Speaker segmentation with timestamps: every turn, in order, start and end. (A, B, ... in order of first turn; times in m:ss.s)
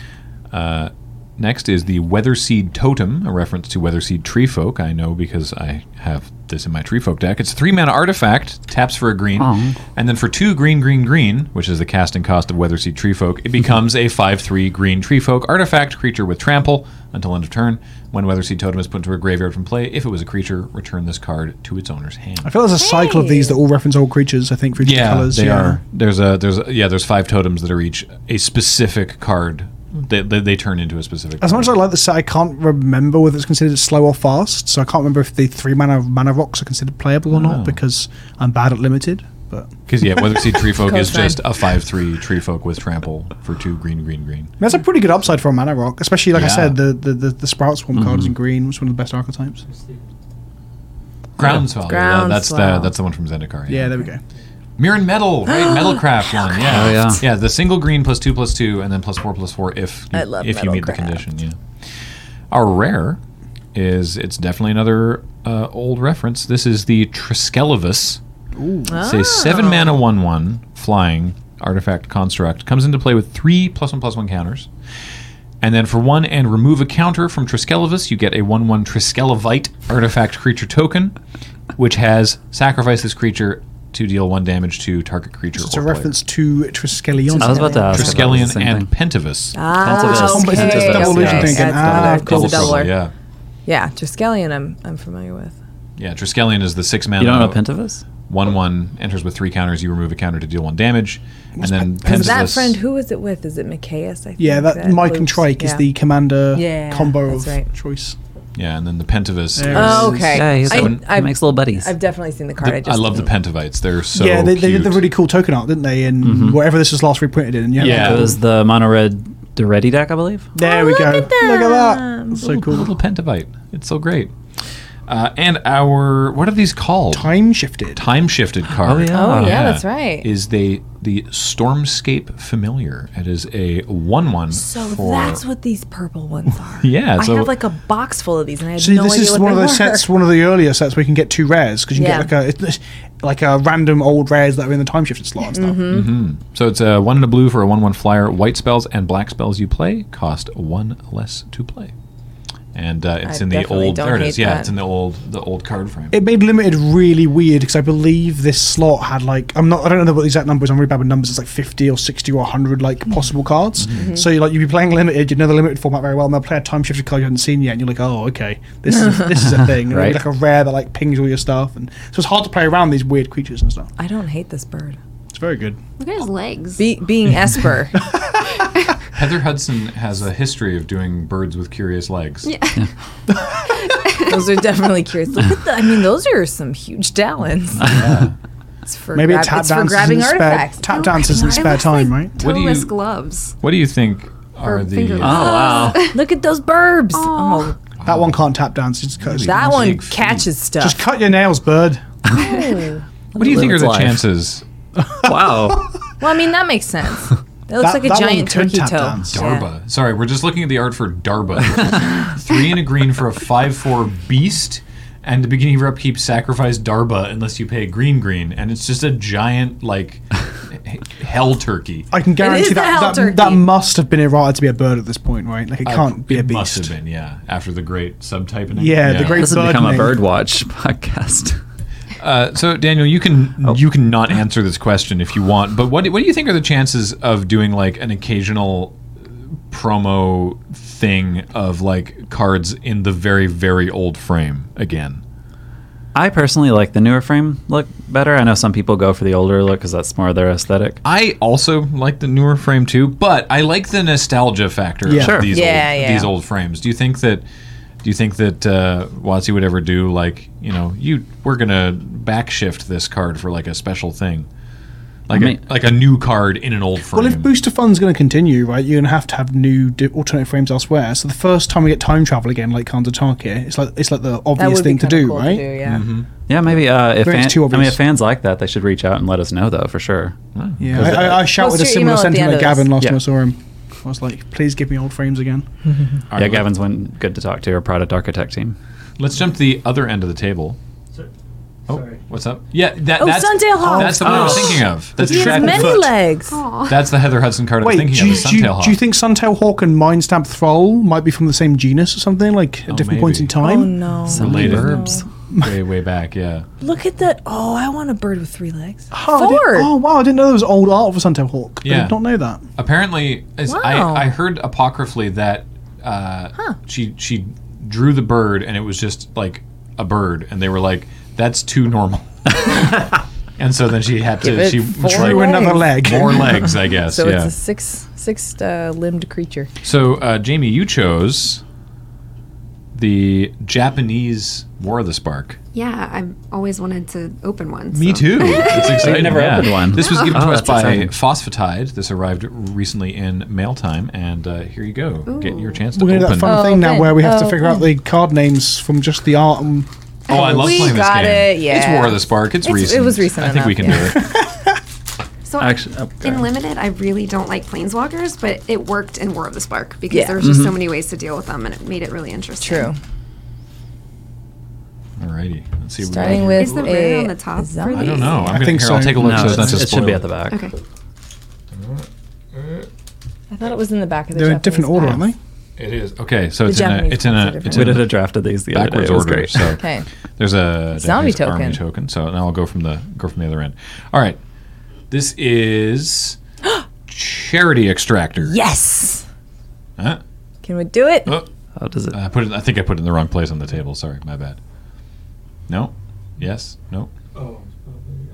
0:00.5-0:22.5 A
0:09.4-0:09.8 B
0:22.4-0:25.8 C
0:22.8-0:23.6 D
0:24.8-0:31.7 A
0:31.4-0:40.4 C
0:37.3-0:37.8 A
0:39.9-0:44.5 A
0:40.8-0:41.4 D
0:44.6-0:49.6 C
0:46.3-0:46.8 A
0:48.0-0:48.3 B
0:51.4-0:54.0 A
0:51.8-0:52.9 D
0:53.7-0:54.2 C
0:54.8-1:01.6 A
0:56.6-0:57.2 B
1:00.1-1:01.2 D
1:02.5-1:03.2 A
1:03.7-1:08.2 A
1:08.6-1:09.0 C
1:08.9-1:09.9 D
1:09.0-1:14.7 A
1:15.6-1:21.2 A
1:21.8-1:26.1 A
1:25.6-1:28.4 C
1:27.4-1:28.2 D
1:27.4-1:28.9 B
1:27.9-1:29.6 A
1:29.6-1:33.0 D
1:29.8-1:32.7 B
1:29.8-1:32.8 C
1:31.2-1:33.1 A
1:33.7-1:35.6 D
1:36.0-1:37.6 A
1:37.2-1:38.0 B
1:38.3-1:42.8 A
1:41.6-1:42.5 C
1:42.0-1:45.9 D
1:44.4-1:48.2 C
1:46.5-1:47.7 D
1:48.6-1:51.0 A
1:49.6-1:50.5 C
1:49.7-1:53.3 D
1:50.3-1:51.9 B
1:52.6-1:55.1 A
1:54.1-1:58.4 C
1:56.2-1:56.6 B
1:57.8-1:58.4 A
1:57.8-2:00.5 B
2:00.6-2:02.9 C
2:00.6-2:02.5 D
2:02.4-2:04.3 A
2:05.1-2:07.3 A
2:07.1-2:08.0 C
2:08.0-2:15.4 A
2:08.8-2:09.6 B
2:09.1-2:10.3 D
2:14.5-2:20.1 D
2:16.8-2:17.5 A
2:18.8-2:26.0 C
2:22.0-2:22.3 D
2:25.5-2:26.2 D
2:25.9-2:31.9 A
2:32.7-2:36.2 A
2:33.2-2:34.7 D
2:36.1-2:53.9 C
2:43.9-2:44.3 D
2:49.9-2:50.2 B
2:54.0-2:55.0 D
2:55.3-2:55.8 C
2:56.0-2:56.9 E
2:56.8-2:58.0 D
2:58.6-2:58.9 E
2:59.2-3:02.5 A
3:02.4-3:02.9 E
3:03.7-3:04.4 E
3:04.3-3:08.0 D
3:07.8-3:08.3 A
3:08.9-3:11.8 D
3:09.2-3:12.4 C
3:10.9-3:13.6 E
3:12.4-3:12.9 A
3:13.6-3:15.6 A
3:14.6-3:16.2 E
3:15.2-3:16.1 B
3:15.4-3:17.8 D
3:17.1-3:17.8 E
3:18.0-3:18.4 A
3:18.0-3:20.0 C
3:19.2-3:20.5 A
3:19.4-3:21.0 D
3:20.8-3:22.0 C
3:22.3-3:23.0 D
3:22.4-3:22.7 E
3:23.4-3:24.2 B
3:23.4-3:24.6 A
3:25.2-3:25.9 B
3:25.3-3:25.8 C
3:26.2-3:29.7 D
3:27.8-3:29.5 C
3:29.3-3:42.1 A
3:42.1-3:46.9 C
3:42.4-3:43.7 D
3:45.8-3:49.6 A
3:48.7-3:50.2 C
3:49.2-3:51.6 B
3:52.2-3:59.0 A
3:59.7-4:05.2 A
4:06.2-4:11.0 B
4:11.0-4:17.4 A
4:15.0-4:15.5 C
4:15.2-4:15.5 B
4:15.5-4:16.3 D
4:18.0-4:24.5 A
4:25.3-4:27.5 A
4:25.3-4:25.6 B
4:27.1-4:35.6 C
4:34.6-4:36.1 D
4:35.8-4:36.3 A
4:36.5-4:40.4 B
4:37.1-4:38.0 C
4:40.6-4:41.2 A
4:40.8-4:45.7 C
4:40.9-4:41.5 B
4:41.3-4:42.9 D
4:46.3-4:46.7 A
4:46.3-4:48.8 B
4:49.2-4:50.8 A
4:51.9-4:56.1 A
4:53.2-4:56.6 D
4:53.8-4:56.1 C
4:54.4-4:54.7 B
4:56.5-4:57.1 E
4:56.9-4:59.0 A
4:57.8-5:04.0 C
5:02.9-5:03.5 A
5:03.6-5:05.2 D
5:04.3-5:05.2 B
5:04.3-5:06.7 A
5:06.8-5:09.9 D
5:09.1-5:12.6 C
5:11.8-5:12.2 A
5:12.8-5:23.0 A
5:13.7-5:14.3 D
5:23.6-5:27.5 A
5:24.4-5:29.7 D
5:25.0-5:26.5 C
5:29.8-5:31.6 A
5:32.9-5:35.6 A
5:35.7-5:40.4 E
5:37.9-5:46.6 A
5:38.7-5:41.1 B
5:45.3-5:45.8 E
5:45.9-5:50.4 C
5:46.4-5:47.9 D
5:50.3-5:54.2 D
5:50.3-5:54.3 A
5:50.3-5:50.9 E
5:54.2-5:54.8 C
5:55.4-6:02.9 E
5:55.6-5:56.5 B
6:00.1-6:00.5 D
6:00.4-6:00.8 B
6:02.6-6:03.0 D
6:05.2-6:06.9 A
6:06.0-6:08.3 D
6:06.3-6:08.6 E
6:07.9-6:10.3 A
6:08.4-6:10.0 C
6:09.2-6:10.7 B
6:10.5-6:10.8 E
6:11.7-6:12.9 A
6:13.5-6:15.3 D
6:14.3-6:15.4 C
6:15.8-6:18.2 A
6:16.6-6:18.0 D
6:17.7-6:19.8 B
6:18.7-6:19.8 A
6:19.8-6:20.1 D
6:20.4-6:24.4 A
6:21.0-6:21.8 D
6:25.1-6:26.4 A
6:27.1-6:28.6 A
6:28.4-6:29.2 D
6:30.6-6:31.4 D
6:31.8-6:32.2 B
6:32.1-6:34.6 A
6:35.7-6:37.1 A